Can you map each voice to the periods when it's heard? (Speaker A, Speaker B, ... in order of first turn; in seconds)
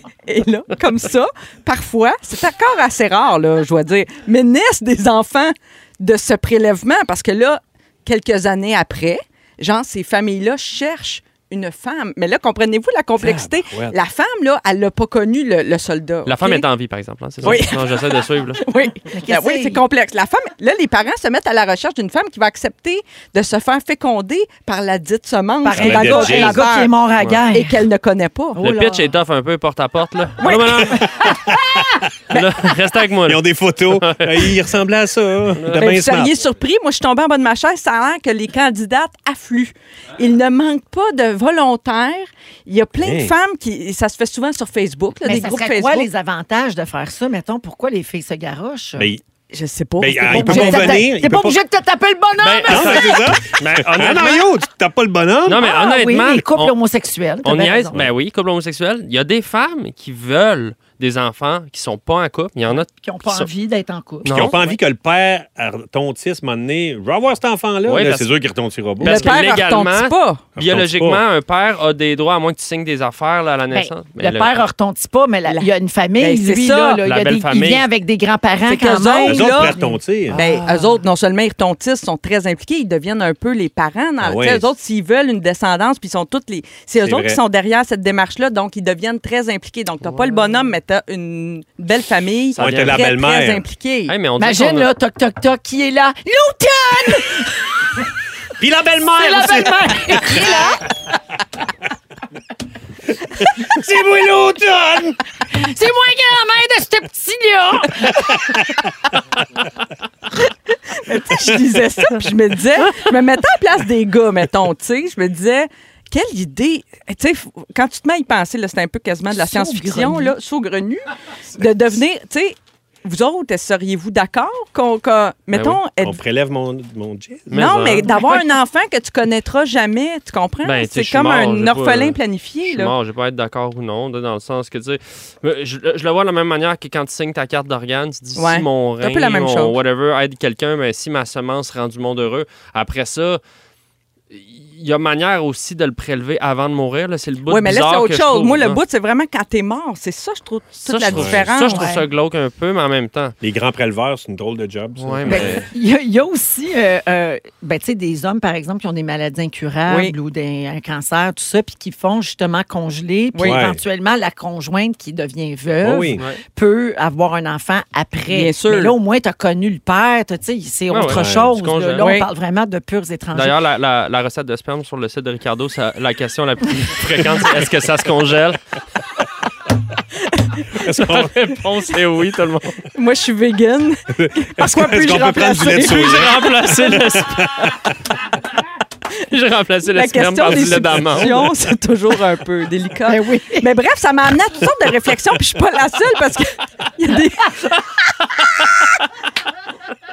Speaker A: 0.3-16.6, 17.4-26.9, 27.5-28.6, 30.4-31.0, 35.8-46.1, 49.5-51.1, 69.0-70.5, 75.5-77.0, 78.6-94.1, 110.9-126.2, 127.5-132.9, 138.4-139.8, 147.5-152.0, 159.9-160.1, 163.3-163.6, 168.3-169.0, 172.0-172.3, 182.9-186.5, 189.9-197.6
Speaker B: 13.2-14.0, 17.4-17.7, 25.7-26.6, 31.2-31.8, 33.2-36.3, 43.0-43.3, 50.0-51.6, 52.7-55.6, 64.3-69.4, 70.6-71.2, 79.3-80.4, 84.2-84.7, 87.0-87.4, 92.6-93.7, 98.6-100.7, 103.4-105.2, 108.1-108.6, 126.0-127.9, 151.1-151.6, 153.4-155.7, 163.4-163.8, 165.8-166.2, 171.1-171.6, 180.8-181.3, 184.1-187.8
Speaker C: 16.3-18.6, 28.6-31.1, 32.3-34.6, 35.6-35.9, 52.4-54.5, 55.5-56.7, 57.4-63.5, 64.2-64.5, 67.9-68.3, 69.0-74.6, 77.0-77.9, 92.6-93.0, 94.1-94.9, 125.5-125.8, 127.5-128.4, 130.6-143.4, 144.3-148.8, 150.8-153.3, 155.0-155.7, 170.9-172.1, 173.3-178.6, 180.8-182.8, 185.9-187.7, 189.2-191.5
Speaker D: 19.1-19.8, 25.6-27.8, 28.6-29.1, 45.2-49.1, 50.2-53.3, 55.6-58.0, 62.7-64.7, 73.7-81.0, 94.4-97.5, 99.2-100.8, 105.5-108.3, 119.3-120.4, 151.7-152.0, 155.3-173.6, 193.1-193.7